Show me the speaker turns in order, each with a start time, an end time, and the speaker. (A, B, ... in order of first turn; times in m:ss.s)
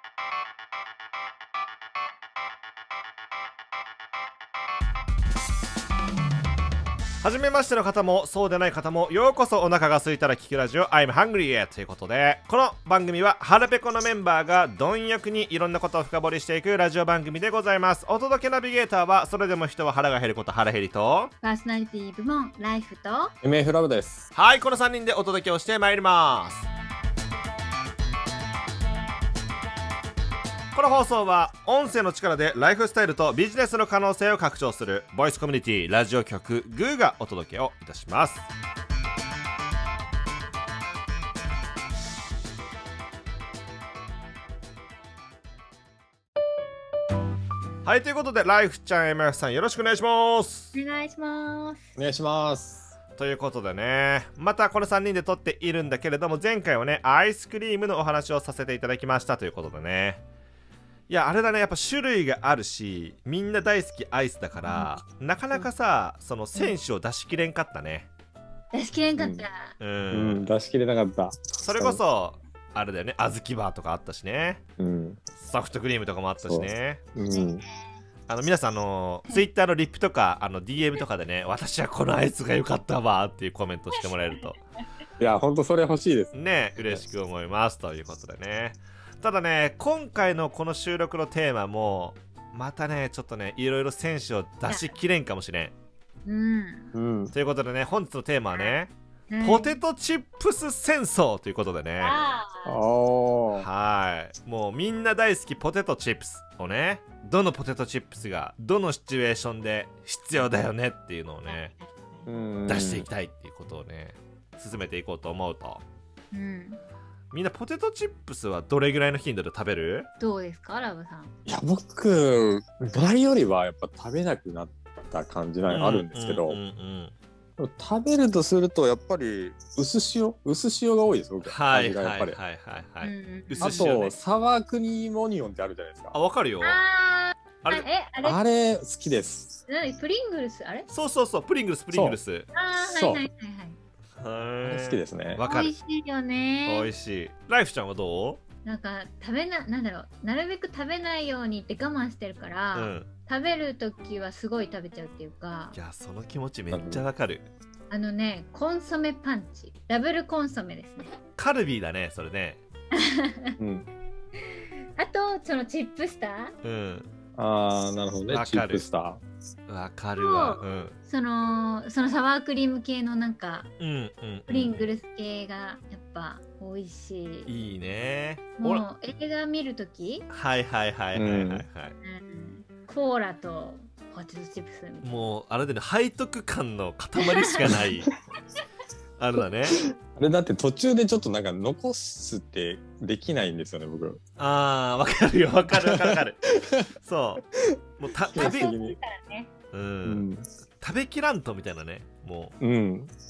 0:07.2-0:21.3 A
0:21.4-0:23.3 B
0:23.4-0:24.3 C
0:24.4-0:26.7 A
0:30.7-0:38.5 A
0:47.8-0:50.7 A
0:50.8-0:51.9 B
0:52.0-0:52.9 C
0:53.2-1:00.2 A
1:01.1-1:08.1 A
1:04.6-1:05.7 B
1:08.7-1:09.7 B
1:09.2-1:09.5 C
1:09.8-1:10.5 A
1:10.1-1:12.0 C
1:11.6-1:14.6 A
1:14.8-1:15.2 C
1:15.4-1:17.0 A
1:16.4-1:17.6 C
1:17.2-1:17.8 B
1:18.3-1:24.6 A
1:25.2-1:27.0 C
1:26.3-1:35.7 A
1:34.7-1:35.0 B
1:36.3-1:36.9 B
1:36.9-1:37.3 C
1:37.3-1:42.2 A
1:39.3-1:39.8 B
1:42.0-1:42.8 B
1:42.6-1:43.7 C
1:43.6-1:51.7 A
1:51.5-1:52.3 B
1:52.3-1:53.1 C
1:52.7-1:55.8 A
1:56.3-1:56.8 B
1:57.3-2:00.1 A
2:00.2-2:01.3 B
2:01.5-2:06.6 C
2:05.6-2:07.2 A
2:07.6-2:12.4 C
2:11.4-2:14.2 A
2:13.0-2:13.9 B
2:13.6-2:16.2 C
2:16.1-2:16.8 A
2:16.6-2:18.4 B
2:18.2-2:19.6 C
2:19.7-2:20.9 B
2:20.9-2:22.5 A
2:21.9-2:22.2 C
2:22.5-2:23.8 B
2:22.8-2:23.2 C
2:24.2-2:25.7 A
2:24.6-2:25.4 C
2:25.5-2:26.9 B
2:26.7-2:28.4 A
2:28.6-2:35.8 B
2:32.7-2:33.1 A
2:35.7-2:37.5 A
2:36.7-2:37.0 C
2:37.9-2:41.2 B
2:41.4-2:42.6 A
2:43.0-2:43.5 B
2:43.6-2:43.9 C
2:45.0-2:46.6 B
2:46.6-2:47.1 A
2:47.4-2:49.2 C
2:48.3-2:48.8 A
2:49.7-2:51.0 A
2:50.2-2:53.7 B
2:53.8-2:54.9 A
2:54.5-2:57.5 B
2:57.5-2:58.8 A
2:58.6-3:00.3 B
3:00.3-3:02.0 A
3:01.2-3:01.7 C
3:02.0-3:05.2 B
3:05.0-3:08.1 A
3:07.4-3:07.7 B
3:09.2-3:09.8 A
3:09.8-3:14.2 C
3:14.4-3:16.4 A
3:15.8-3:16.9 C
3:17.0-3:17.4 A
3:18.0-3:18.7 A
3:18.3-3:19.0 C
3:18.4-3:19.5 B
3:19.7-3:20.3 A
3:20.0-3:20.5 C
3:20.8-3:22.6 A
3:22.6-3:23.1 C